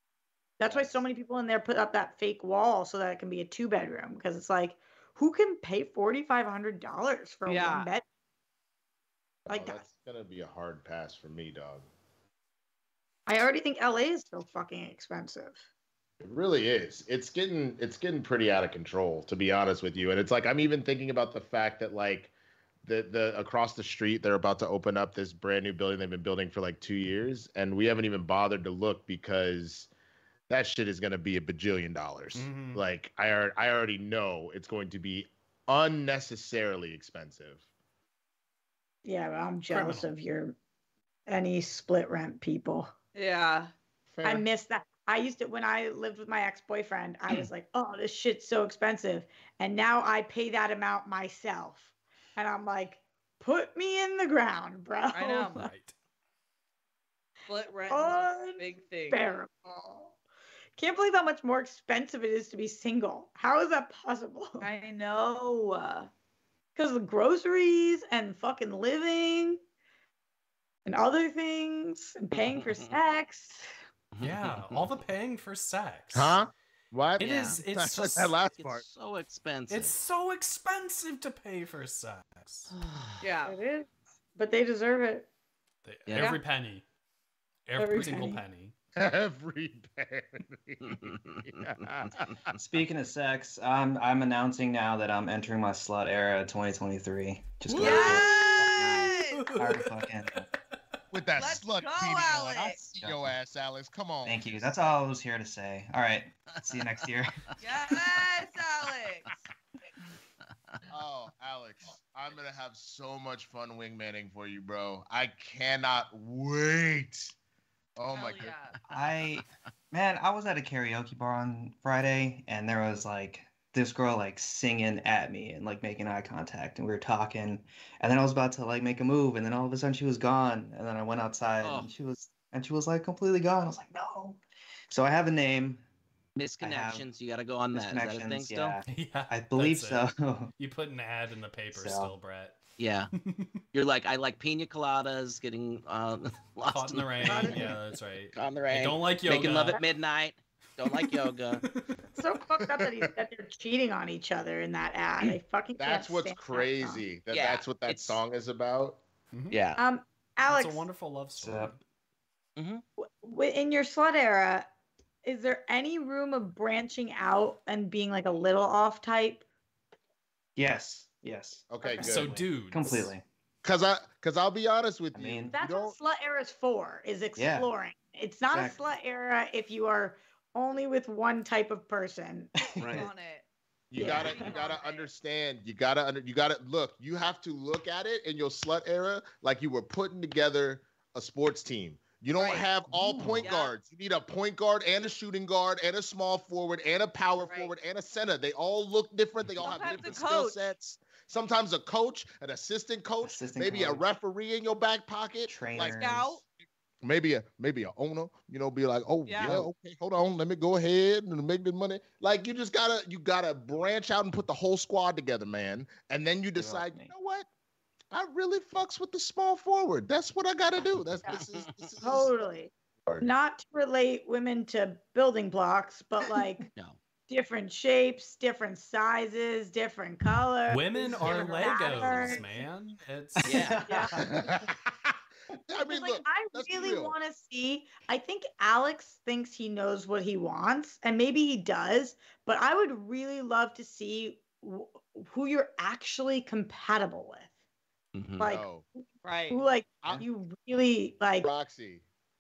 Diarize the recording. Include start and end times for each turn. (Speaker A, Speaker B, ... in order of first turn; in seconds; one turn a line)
Speaker A: 0.6-8.0
Speaker B: 7.5-7.9
Speaker C: 9.4-11.9
Speaker A: 9.5-9.8
Speaker A: 13.3-15.6
Speaker C: 16.2-22.3
Speaker C: 22.8-29.9
Speaker C: 30.5-37.6
Speaker D: 32.4-32.9
Speaker A: 39.0-40.6
Speaker D: 39.7-40.1
Speaker A: 41.3-42.9
Speaker B: 43.1-43.7
Speaker C: 44.1-44.5
Speaker A: 44.2-55.7
Speaker B: 55.1-55.6
Speaker D: 55.6-55.9
Speaker B: 57.5-59.2
Speaker A: 57.9-60.1
Speaker A: 60.8-64.7
Speaker B: 64.6-66.1
Speaker A: 66.8-69.6
Speaker A: 70.8-73.7
Speaker E: 72.3-72.9
Speaker E: 74.2-75.1
Speaker D: 74.2-76.4
Speaker C: 76.1-78.8
Speaker E: 77.2-77.6
Speaker D: 77.2-78.4
Speaker E: 78.4-80.0
Speaker D: 79.7-82.7
Speaker E: 82.7-83.2
Speaker B: 83.2-83.6
Speaker A: 83.5-85.3
Speaker D: 85.8-86.8
Speaker E: 86.1-86.4
Speaker D: 87.7-88.7
Speaker A: 87.8-88.4
Speaker C: 89.0-92.5
Speaker E: 90.9-91.4
Speaker F: 92.5-100.4
Speaker D: 97.7-98.2
Speaker B: 97.8-99.5
Speaker D: 99.3-100.5
Speaker C: 101.1-105.0
Speaker B: 101.4-102.8
Speaker F: 103.0-103.3
Speaker F: 104.2-107.4
Speaker E: 106.7-107.0
Speaker B: 107.6-109.3
Speaker E: 107.8-108.4
Speaker C: 110.9-117.3
Speaker C: 118.0-118.6
Speaker B: 118.1-118.8
Speaker F: 118.9-135.8
Speaker E: 131.6-131.9
Speaker E: 136.3-138.8
Speaker F: 136.6-137.1
Speaker F: 137.7-140.5
Speaker D: 138.8-142.6
Speaker F: 141.7-142.2
Speaker E: 142.8-143.1
Speaker D: 143.2-143.5
Speaker E: 143.7-147.7
Speaker D: 146.7-149.8
Speaker A: 147.3-147.7
Speaker E: 148.3-151.6
Speaker D: 150.8-152.0
Speaker A: 152.2-157.0
Speaker C: 152.8-153.1
Speaker C: 155.8-159.0
Speaker E: 157.3-158.2
Speaker D: 159.3-159.6
Speaker E: 159.5-159.8
Speaker A: 159.8-160.9
Speaker D: 160.4-161.8
Speaker F: 161.4-161.7
Speaker E: 162.6-162.8
Speaker A: 163.0-164.7
Speaker A: 165.2-169.4
Speaker F: 170.6-173.2
Speaker C: 171.7-172.3
Speaker D: 172.0-173.1
Speaker C: 173.6-175.9
Speaker F: 175.1-175.6
Speaker A: 175.5-182.5
Speaker F: 177.3-177.7
Speaker F: 178.5-178.8
Speaker F: 182.6-183.1
Speaker B: 182.8-183.4
Speaker C: 182.8-183.1
Speaker C: 183.9-206.0
Speaker F: 183.9-184.4
Speaker B: 184.0-185.1
Speaker B: 192.4-192.7
Speaker F: 192.9-193.5
Speaker B: 193.4-193.7
Speaker B: 197.4-197.7
Speaker B: 199.6-200.7
Speaker F: 203.2-204.0
Speaker F: 205.4-206.4
Speaker B: 206.0-206.4
Speaker C: 207.0-217.5
Speaker B: 209.3-209.7
Speaker F: 216.6-217.1
Speaker C: 218.1-222.3
Speaker E: 221.5-221.9
Speaker A: 222.0-226.7
Speaker A: 227.3-232.5
Speaker D: 230.7-233.8
Speaker E: 231.3-232.4
Speaker B: 231.4-231.8
Speaker E: 233.4-233.8
Speaker F: 233.5-234.6
Speaker A: 233.5-234.1
Speaker C: 234.2-235.2
Speaker C: 235.7-237.2
Speaker A: 235.7-247.5
Speaker E: 248.1-248.5
Speaker A: 248.4-248.7
Speaker C: 248.4-248.8
Speaker B: 249.2-249.6
Speaker A: 249.5-251.5
Speaker C: 251.4-252.0